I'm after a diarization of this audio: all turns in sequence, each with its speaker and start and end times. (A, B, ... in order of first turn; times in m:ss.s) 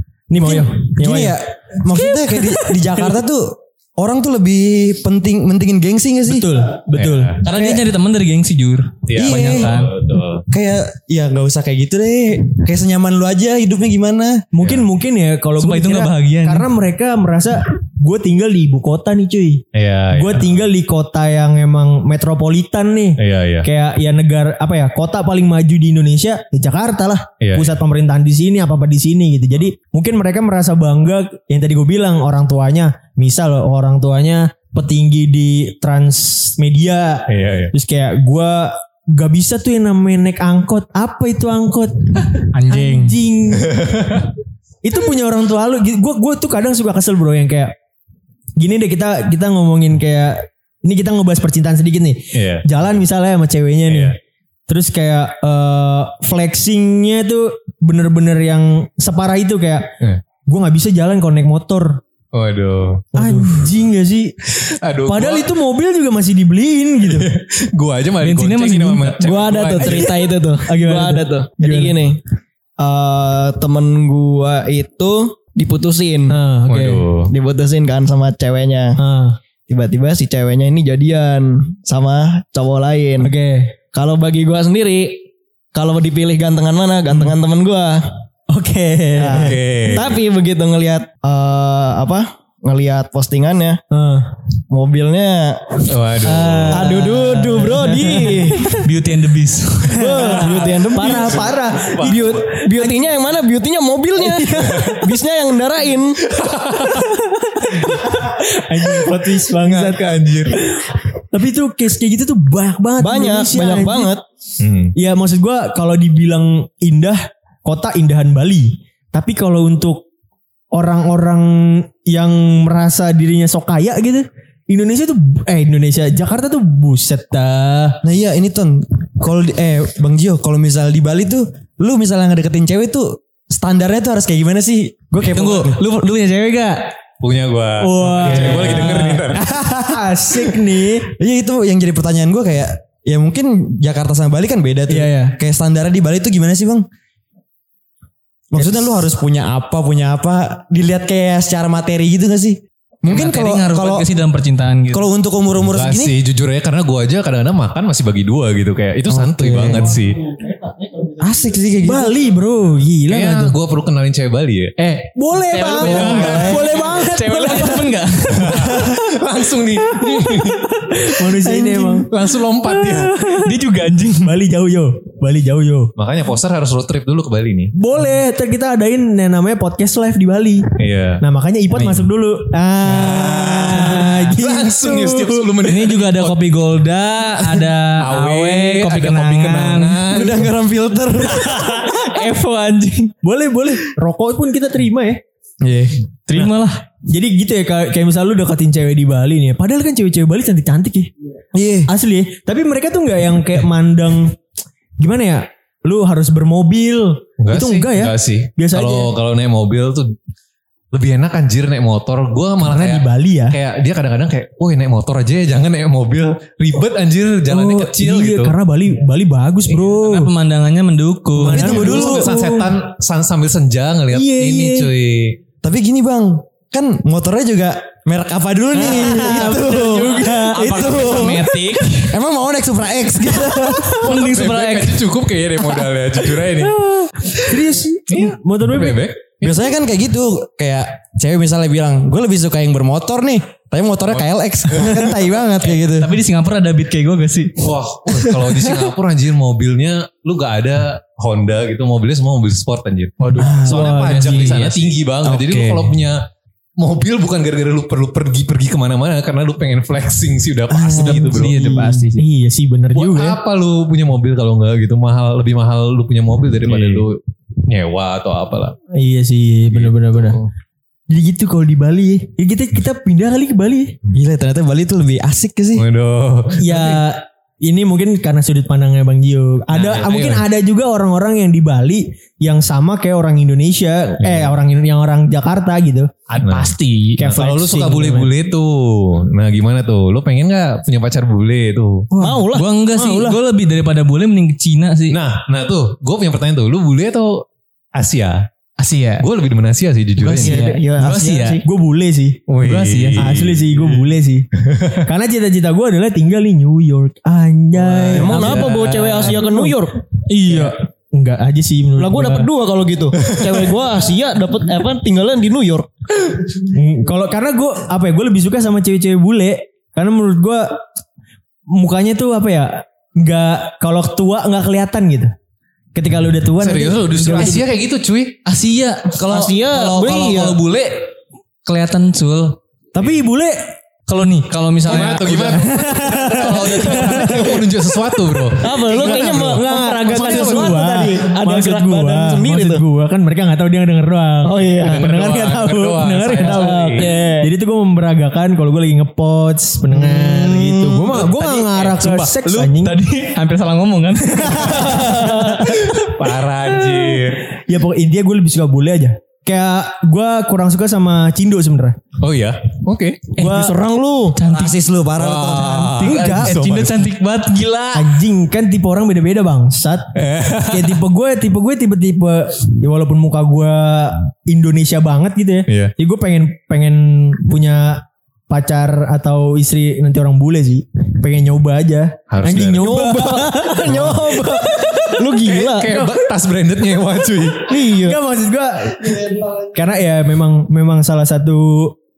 0:00.3-0:01.4 A
0:00.4-0:06.5 B
0:06.2-0:07.4 A
0:06.9-0:07.4 C
0:07.4-0:09.9 D
0:07.5-0:07.8 B
0:09.1-0:10.4 C
0:09.2-0:09.9 B
0:10.5-0:14.4 B
0:14.5-0:44.2 A
0:14.6-0:14.8 C
0:15.6-0:16.7 D
0:19.7-0:20.5 C
0:23.2-0:23.7 C
0:27.4-0:27.7 C
0:37.3-0:37.7 C
0:42.5-0:43.2 D
0:43.7-0:44.2 C
0:44.8-0:47.7 A
0:48.6-0:54.1 A
0:52.3-0:52.6 C
0:53.9-0:54.1 C
0:54.7-0:59.9 A
1:00.4-1:02.0 A
1:02.3-1:03.1 C
1:03.1-1:04.5 A
1:03.2-1:03.5 D
1:04.6-1:05.5 C
1:05.0-1:07.3 A
1:07.0-1:10.1 C
1:08.2-1:09.5 D
1:09.2-1:12.2 E
1:09.8-1:11.9 A
1:12.8-1:16.4 E
1:16.3-1:17.0 A
1:16.7-1:17.3 C
1:17.3-1:19.0 E
1:19.0-1:19.4 A
1:19.7-1:23.3 E
1:23.2-1:23.7 A
1:23.9-1:28.2 E
1:28.5-1:29.6 A
1:29.2-1:33.8 E
1:29.3-1:30.2 C
1:33.9-1:34.3 A
1:34.7-1:38.7 E
1:35.9-1:36.9 C
1:36.5-1:38.8 A
1:38.7-1:40.6 D
1:39.8-1:43.0 A
1:39.9-1:46.2 E
1:41.0-1:42.2 C
1:44.2-1:45.1 A
1:44.6-1:44.9 C
1:46.3-1:47.1 C
1:47.6-1:54.1 A
1:49.5-1:50.6 C
1:53.0-1:54.2 E
1:54.6-1:54.9 C
1:54.9-2:00.0 A
2:00.7-2:08.0 A
2:08.0-2:15.8 B
2:15.3-2:16.9 D
2:17.2-2:19.5 C
2:17.8-2:21.1 A
2:21.1-2:26.8 B
2:24.9-2:25.4 A
2:28.5-2:34.1 B
2:28.6-2:29.0 A
2:33.1-2:35.1 D
2:34.9-2:36.2 B
2:35.7-2:40.2 C
2:39.1-2:39.9 B
2:41.2-2:42.2 B
2:41.8-2:43.5 A
2:43.1-2:44.7 C
2:44.8-2:48.8 D
2:45.1-2:47.9 A
2:45.8-2:46.6 C
2:46.0-2:46.7 B
2:48.4-2:50.7 C
2:50.9-2:52.1 A
2:51.4-2:52.0 B
2:52.1-2:53.1 C
2:52.6-2:53.5 A
2:53.2-2:54.3 D
2:54.2-2:55.9 A
2:56.0-2:57.7 C
2:57.7-3:05.5 A
3:00.8-3:01.2 C
3:01.7-3:02.0 C
3:02.9-3:06.4 C
3:05.6-3:10.0 D
3:08.0-3:10.5 C
3:09.2-3:09.8 A
3:10.1-3:11.7 B
3:11.2-3:12.2 A
3:11.9-3:13.1 D
3:13.2-3:15.2 A
3:15.6-3:16.0 B
3:16.3-3:16.8 D
3:17.0-3:21.1 A
3:21.5-3:21.9 B
3:21.9-3:24.4 A
3:25.0-3:29.1 A
3:27.4-3:30.2 C
3:30.9-3:38.5 C
3:32.6-3:33.6 A
3:37.5-3:40.3 A
3:39.8-3:41.7 D
3:41.4-3:42.7 A
3:41.5-3:42.3 B
3:41.5-3:45.4 C
3:44.1-3:44.9 A
3:45.6-3:54.1 B
3:48.8-3:51.4 A
3:48.8-3:52.2 D
3:54.0-3:55.0 D
3:54.1-3:59.6 C
3:57.3-3:59.1 A
3:59.4-4:06.2 B
4:05.6-4:07.7 D
4:07.6-4:16.2 C
4:13.2-4:14.9 D
4:13.3-4:13.8 B
4:13.5-4:14.6 A
4:15.2-4:15.9 B
4:16.8-4:21.6 C
4:20.7-4:21.2 B
4:21.0-4:22.2 D
4:21.1-4:23.4 A
4:22.9-4:28.8 C
4:28.9-4:30.4 A
4:29.7-4:30.5 C
4:31.1-4:34.0 A
4:34.1-4:35.8 B
4:35.8-4:37.0 C
4:36.6-4:46.1 A
4:39.7-4:40.4 C
4:44.2-4:44.5 C
4:46.3-4:52.1 C
4:46.4-4:47.2 D
4:47.2-4:48.3 A
4:52.1-4:52.4 A
4:52.2-4:52.7 E
4:52.4-4:55.2 D
4:52.9-4:53.4 A
4:55.1-4:58.5 C
4:58.8-4:59.3 D
4:59.2-5:00.6 C
5:00.2-5:01.6 D
5:00.3-5:01.6 E
5:01.6-5:02.4 A
5:02.5-5:04.0 C
5:02.6-5:03.3 D
5:03.2-5:04.5 A
5:04.6-5:05.0 C
5:05.0-5:09.8 A
5:08.1-5:09.5 D
5:08.1-5:10.0 E
5:10.3-5:10.7 D
5:10.4-5:12.5 A
5:12.0-5:15.9 E
5:16.6-5:20.8 A
5:21.7-5:25.3 A
5:25.9-5:27.6 A
5:26.6-5:28.4 C
5:28.4-5:31.1 D
5:29.2-5:30.6 E
5:31.6-5:32.6 D
5:32.9-5:33.7 A
5:34.1-5:37.6 D
5:34.8-5:40.9 C
5:35.5-5:37.5 A
5:38.6-5:53.0 A
5:38.6-5:42.8 E
5:44.4-5:45.0 E
5:44.8-5:47.1 C
5:46.4-5:47.5 E
5:49.9-5:51.1 E
5:51.1-5:55.8 D
5:51.2-5:52.1 C
5:54.4-5:56.0 A
5:55.6-5:57.4 C
5:56.8-6:02.0 A
6:02.2-6:03.3 C
6:03.4-6:03.7 A
6:03.4-6:04.4 E
6:04.4-6:04.8 D
6:04.4-6:06.0 B
6:05.2-6:07.1 C
6:05.6-6:08.2 D
6:06.0-6:06.5 A
6:07.9-6:25.2 A
6:10.1-6:11.0 C
6:15.7-6:15.9 C
6:22.3-6:23.1 C
6:22.8-6:25.9 E
6:23.9-6:24.2 C
6:25.4-6:27.7 C
6:25.9-6:26.2 A
6:27.7-6:28.2 E
6:28.0-6:31.9 A